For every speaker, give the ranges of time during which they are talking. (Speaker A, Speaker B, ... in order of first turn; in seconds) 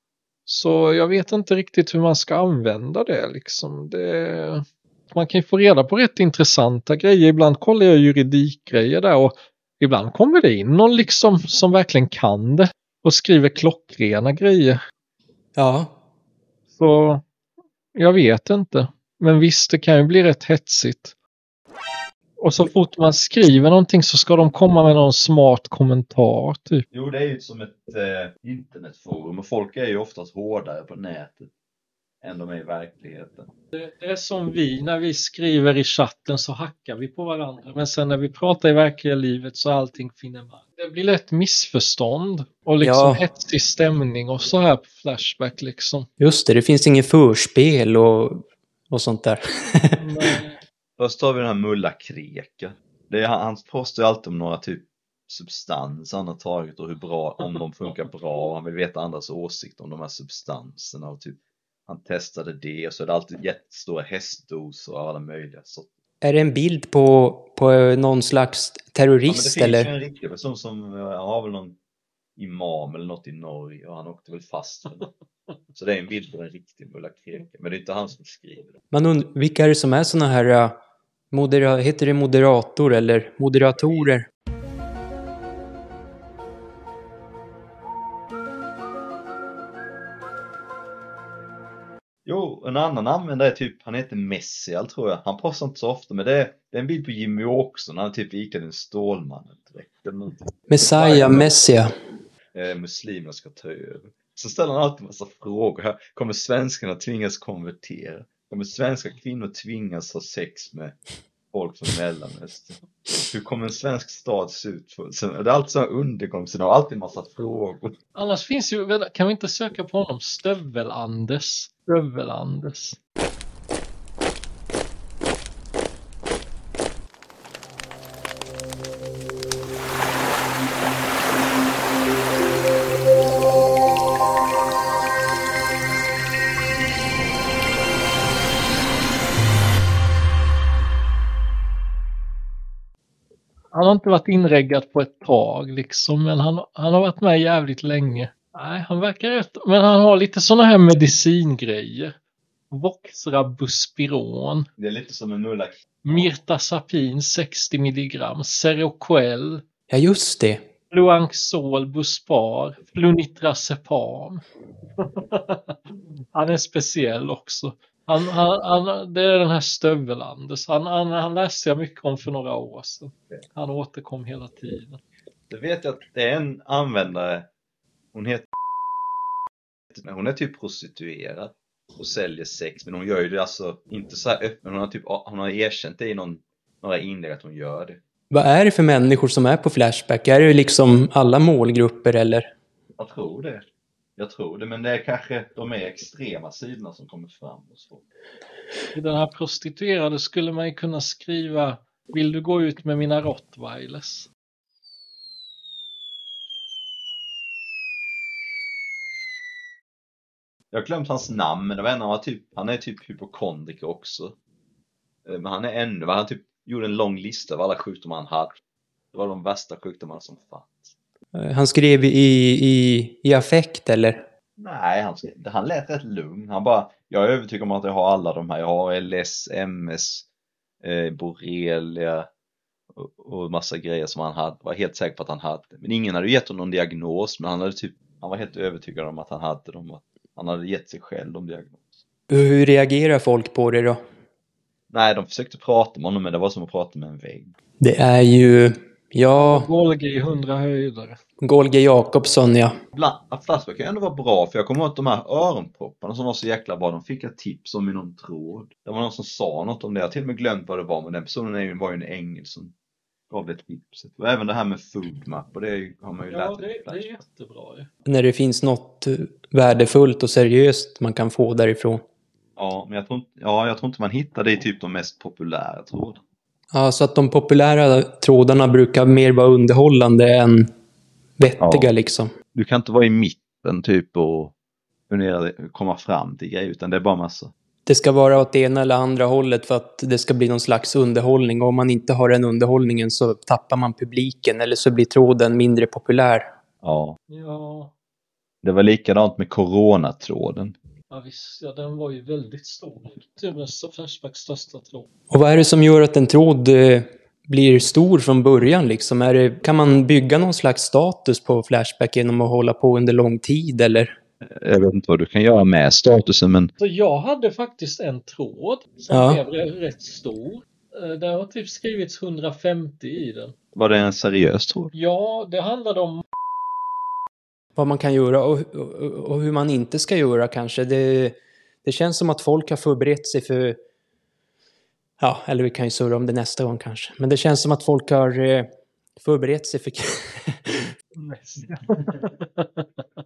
Speaker A: 0.5-14.8, 16.7-17.2, 18.0-21.1, 22.4-26.9, 33.8-46.1, 50.0-50.6, 118.2-123.0, 143.7-152.2, 152.7-154.7, 156.0-159.6, 160.9-164.4, 165.0-165.8, 166.3-175.0, 198.9-204.3, 249.4-251.2, 266.3-267.9, 297.3-297.9, 301.1-305.1, 316.8-323.6, 324.9-326.2, 341.2-342.9
Speaker B: 15.6-15.9, 42.8-43.2, 46.2-50.0, 66.2-69.9, 78.9-80.8, 81.3-84.3, 100.7-101.9, 159.9-160.6, 188.3-192.5, 221.3-224.2, 242.3-244.0, 247.8-249.7, 251.4-252.7, 268.1-272.0, 276.7-280.7, 281.4-282.3, 287.9-296.5, 305.3-314.2, 319.1-319.4, 327.8-333.8, 335.2-340.8
Speaker C: 26.9-31.5, 32.2-33.5, 51.0-65.9, 69.3-71.8, 72.4-75.1, 75.7-78.8, 92.2-101.5, 102.5-111.0, 111.5-118.0, 154.8-156.3, 175.5-177.5, 178.1-178.5, 179.9-188.0, 193.0-193.7, 194.2-198.0, 210.7-214.4, 215.2-218.6, 219.1-220.9, 224.6-230.3, 230.8-232.3, 232.9-242.0, 244.9-247.5, 252.9-262.7, 263.3-267.2, 272.6-276.2, 281.6-281.9, 282.5-284.5, 285.1-287.5, 296.8-297.2, 298.6-300.8, 314.5-316.7, 323.8-324.9